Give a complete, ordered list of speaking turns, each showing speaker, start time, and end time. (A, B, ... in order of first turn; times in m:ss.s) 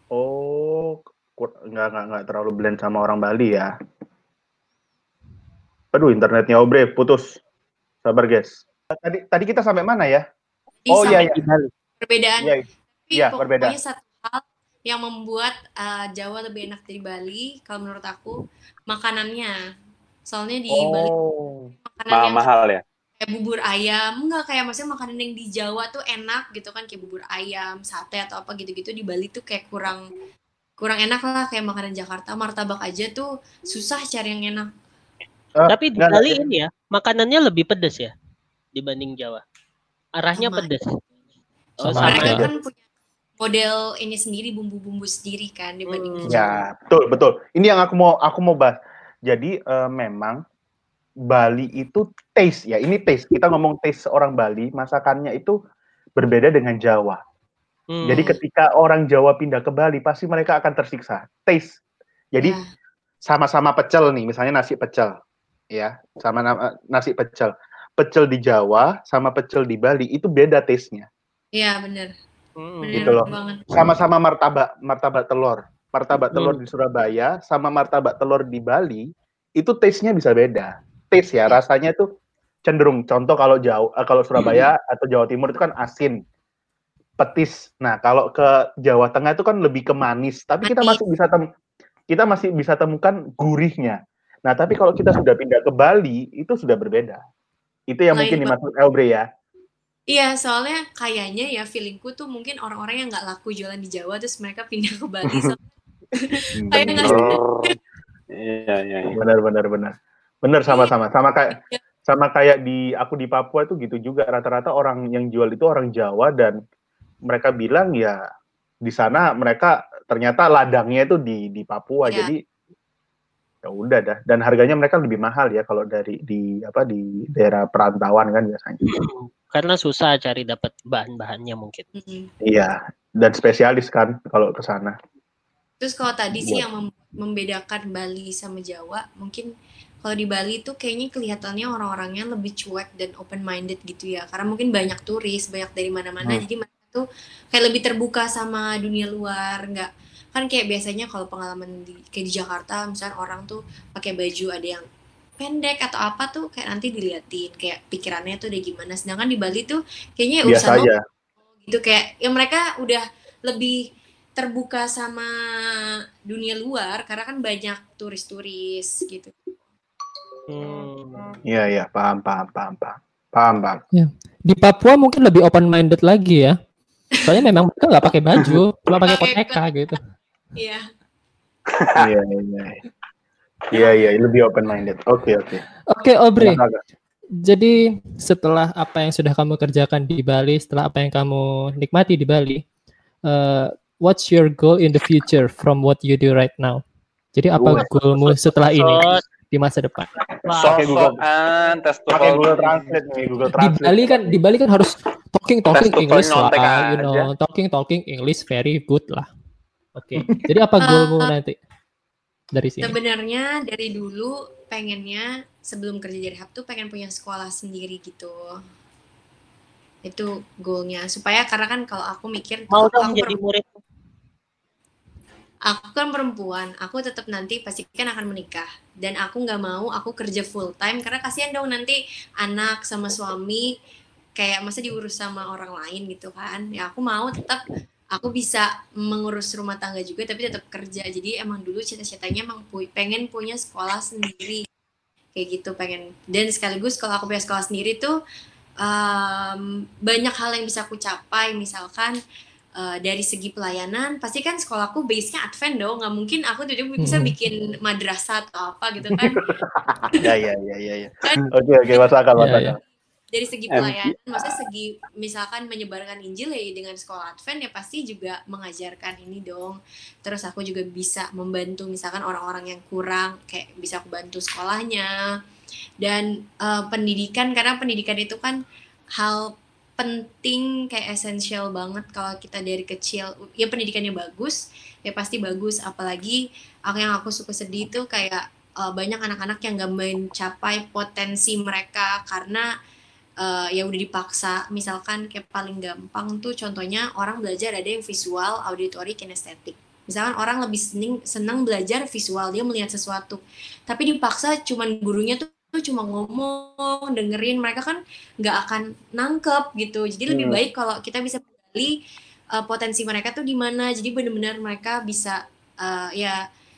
0:00.1-0:03.7 A
0:05.9-0:07.2 A
0:08.0-0:10.2 A
0:10.8-0:11.3 B
0:10.9-0:11.4 A
0:11.0-0:11.7 C
0:12.0-0:12.5 B
0:13.1-0:19.5 B
0:13.2-0:13.8 A
0:20.3-0:21.1 B
0:20.8-0:21.7 A
0:21.8-0:22.5 B
0:22.1-0:22.8 D
0:23.2-0:30.0 B
0:30.8-0:34.7 B
0:35.6-0:36.4 A
0:35.7-0:38.1 C
0:38.8-0:39.4 C
0:40.2-0:40.9 C
0:40.4-0:40.7 B
0:41.8-0:42.6 C
0:41.8-0:42.5 E
0:41.9-0:42.8 B
0:43.4-0:46.5 B
0:45.9-0:46.5 C
0:46.3-0:48.8 A
0:49.3-0:50.4 A
0:51.3-0:55.6 A
0:56.2-0:57.2 A
0:57.9-0:58.3 C
0:58.0-1:01.8 A
1:02.4-1:02.6 B
1:03.3-1:05.2 A
1:05.7-1:11.1 A
1:11.5-1:12.1 B
1:12.6-1:13.4 C
1:12.8-1:13.7 B
1:12.9-1:19.1 A
1:16.3-1:16.6 C
1:19.6-1:22.1 A
1:22.7-1:26.2 A
1:27.2-1:31.4 A
1:30.7-1:31.0 B
1:32.1-1:37.2 A
1:37.9-1:39.2 A
1:38.1-1:38.5 B
1:40.1-1:45.6 B
1:46.2-1:47.4 B
1:46.6-1:47.3 A
1:46.8-1:47.8 D
1:48.4-1:49.2 D
1:49.1-1:56.6 A
1:51.5-1:51.8 B
1:57.3-1:58.2 A
1:58.8-2:02.4 A
2:03.6-2:09.0 A
2:08.8-2:11.9 C
2:12.0-2:12.3 B
2:12.4-2:14.9 A
2:15.8-2:19.5 B
2:20.0-2:34.8 B
2:35.4-2:40.9 B
2:40.4-2:41.0 A
2:41.7-2:43.8 B
2:44.4-2:45.3 B
2:46.3-2:49.6 B
2:50.5-2:51.4 C
2:51.4-2:53.8 A
2:53.9-2:56.6 E
2:57.2-3:00.0 E
2:59.0-3:00.0 B
3:00.6-3:00.8 B
3:01.7-3:02.0 D
3:02.0-3:02.8 A
3:03.7-3:05.6 A
3:05.9-3:06.6 E
3:06.4-3:06.8 A
3:07.4-3:12.6 E
3:13.3-3:16.8 E
3:17.3-3:20.1 E
3:17.9-3:19.2 C
3:20.4-3:21.0 C
3:20.6-3:22.9 D
3:20.6-3:21.2 A
3:22.1-3:24.4 A
3:23.6-3:29.3 E
3:25.7-3:27.3 D
3:30.0-3:31.5 E
3:30.8-3:31.3 B
3:32.5-3:33.0 E
3:32.8-3:38.4 B
3:40.0-3:43.4 B
3:42.7-3:43.8 C
3:45.7-3:53.8 B
3:54.4-3:57.6 B
3:58.2-4:04.6 B
4:05.4-4:08.2 B
4:08.8-4:12.2 B
4:12.8-4:19.5 B
4:17.0-4:17.3 E
4:20.2-4:22.8 A
4:21.2-4:22.0 B
4:22.4-4:22.8 E
4:23.3-4:35.1 B
4:23.7-4:24.5 D
4:36.0-4:38.6 B
4:39.2-4:52.6 B
4:53.4-5:11.9 B
5:10.3-5:10.6 D
5:12.5-5:16.4 B